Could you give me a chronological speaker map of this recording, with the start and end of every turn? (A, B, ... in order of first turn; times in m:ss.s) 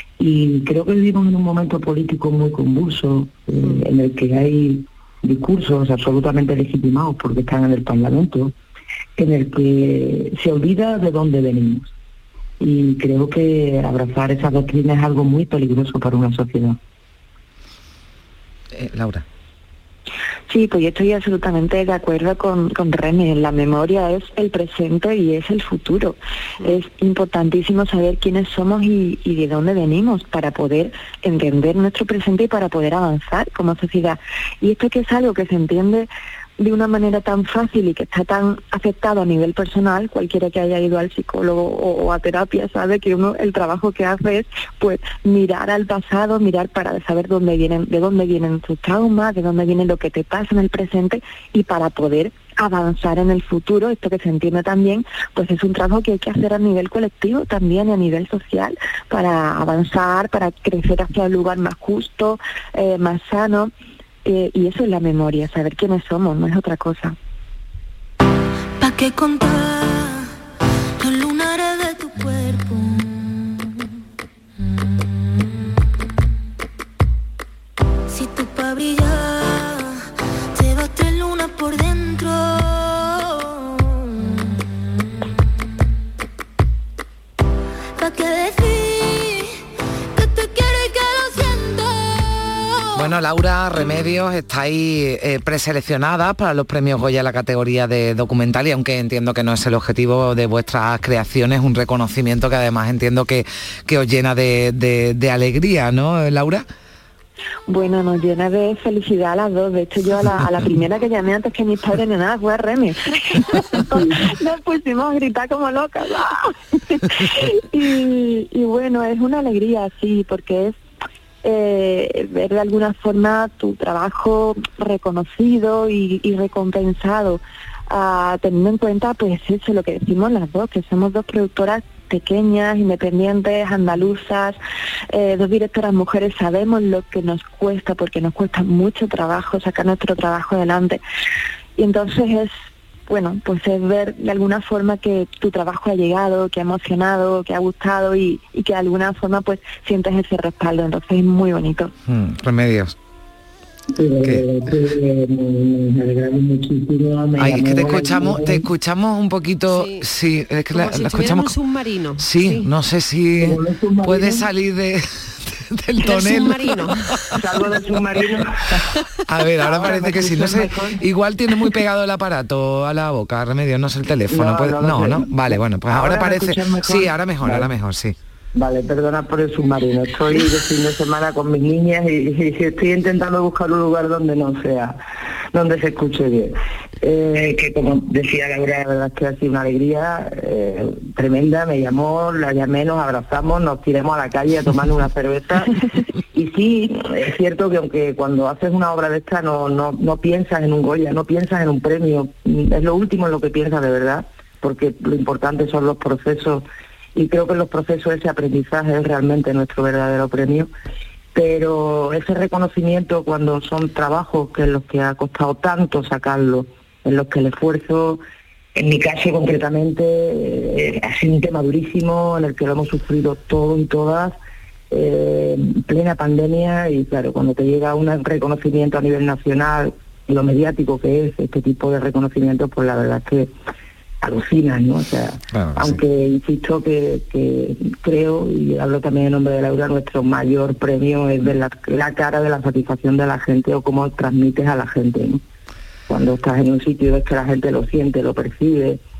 0:00.2-0:08.5 A
0:09.2-0:11.9 A
0:12.6-0:16.8 A
0:18.7-0:19.2 B
0:20.5-1:03.7 C
1:04.2-1:07.1 C
1:08.8-1:10.2 D
1:11.0-1:13.6 D
1:18.1-1:19.9 D
1:20.5-1:24.6 D
1:28.0-1:29.4 D
1:30.1-1:33.1 D
1:33.0-1:46.7 B
1:47.7-2:00.8 C
2:01.4-2:14.6 C
2:15.1-2:21.0 C
2:21.8-2:22.5 C
2:23.1-2:31.9 C
2:32.1-2:33.0 B
2:33.9-2:38.7 A
2:37.4-2:41.5 B
2:39.7-2:40.1 E
2:40.7-2:42.7 E
2:42.2-2:46.8 B
2:43.4-2:44.4 A
2:46.0-2:47.2 E
2:47.4-2:48.9 A
2:49.3-2:58.1 B
2:49.6-2:51.0 A
2:54.3-2:57.7 A
2:58.5-3:05.0 A
3:05.5-3:15.8 A
3:16.3-3:30.7 A
3:31.3-3:38.2 A
3:38.7-3:44.4 A
3:44.9-3:53.5 A
3:54.2-4:05.4 A
3:55.5-3:56.0 B
4:06.1-4:09.0 A